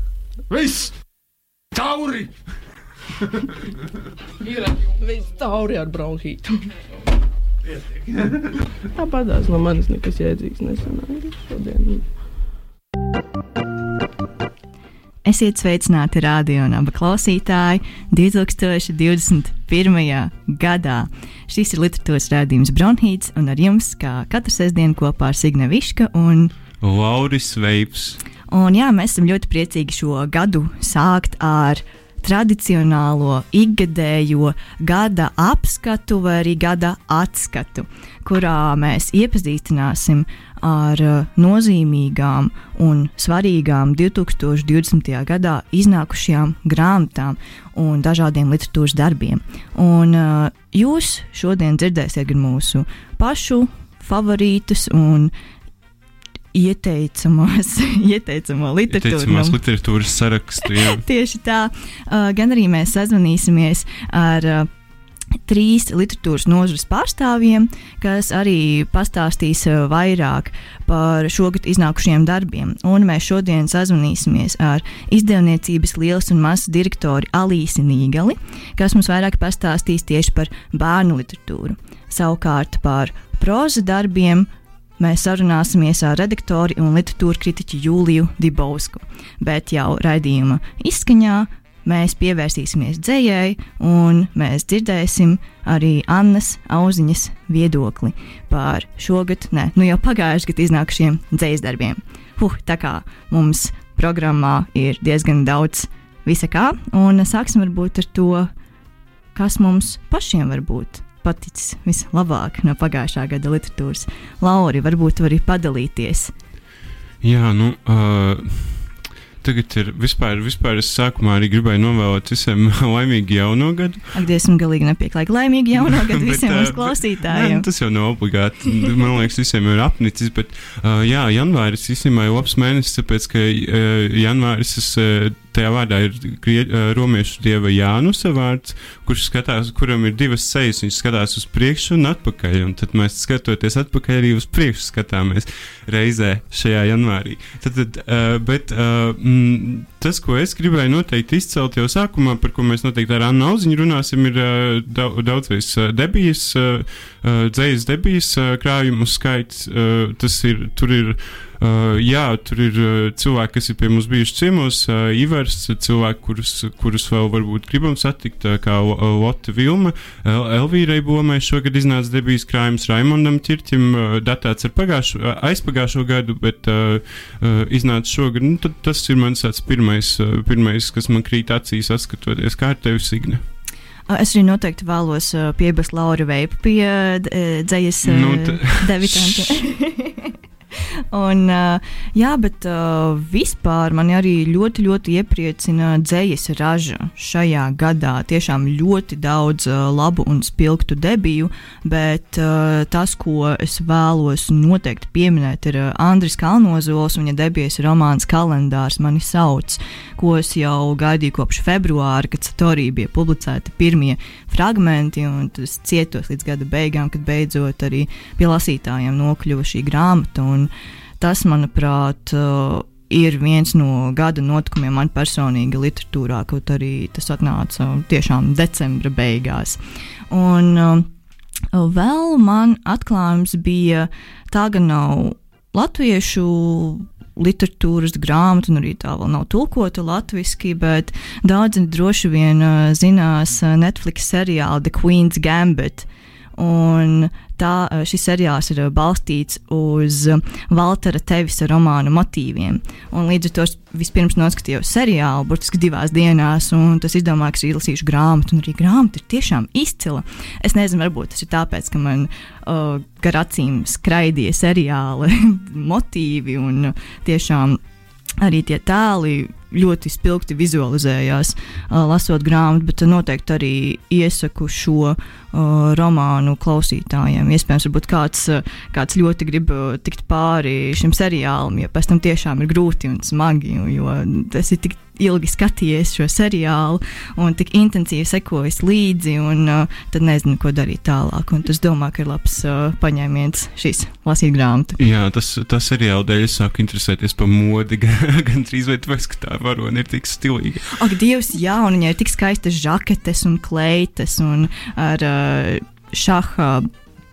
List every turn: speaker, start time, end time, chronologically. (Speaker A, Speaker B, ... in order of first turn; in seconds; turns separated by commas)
Speaker A: 0.5-1.0, Speaker A: 1.7-2.4, Speaker B: 4.4-6.7, Speaker A: 7.7-8.5, Speaker B: 8.9-12.2, Speaker C: 15.2-26.5, Speaker D: 26.8-28.2, Speaker C: 28.5-55.3, Speaker C: 56.5-59.6, Speaker D: 58.9-61.0, Speaker C: 60.6-64.7, Speaker C: 65.5-108.5, Speaker C: 109.3-116.3, Speaker D: 117.2-124.2, Speaker C: 124.1-127.7, Speaker D: 125.8-183.4, Speaker C: 184.1-190.3, Speaker D: 188.0-189.6, Speaker C: 191.1-229.8, Speaker C: 230.3-231.1, Speaker C: 231.7-267.8, Speaker C: 268.4-295.0, Speaker D: 295.0-301.0, Speaker C: 300.9-306.9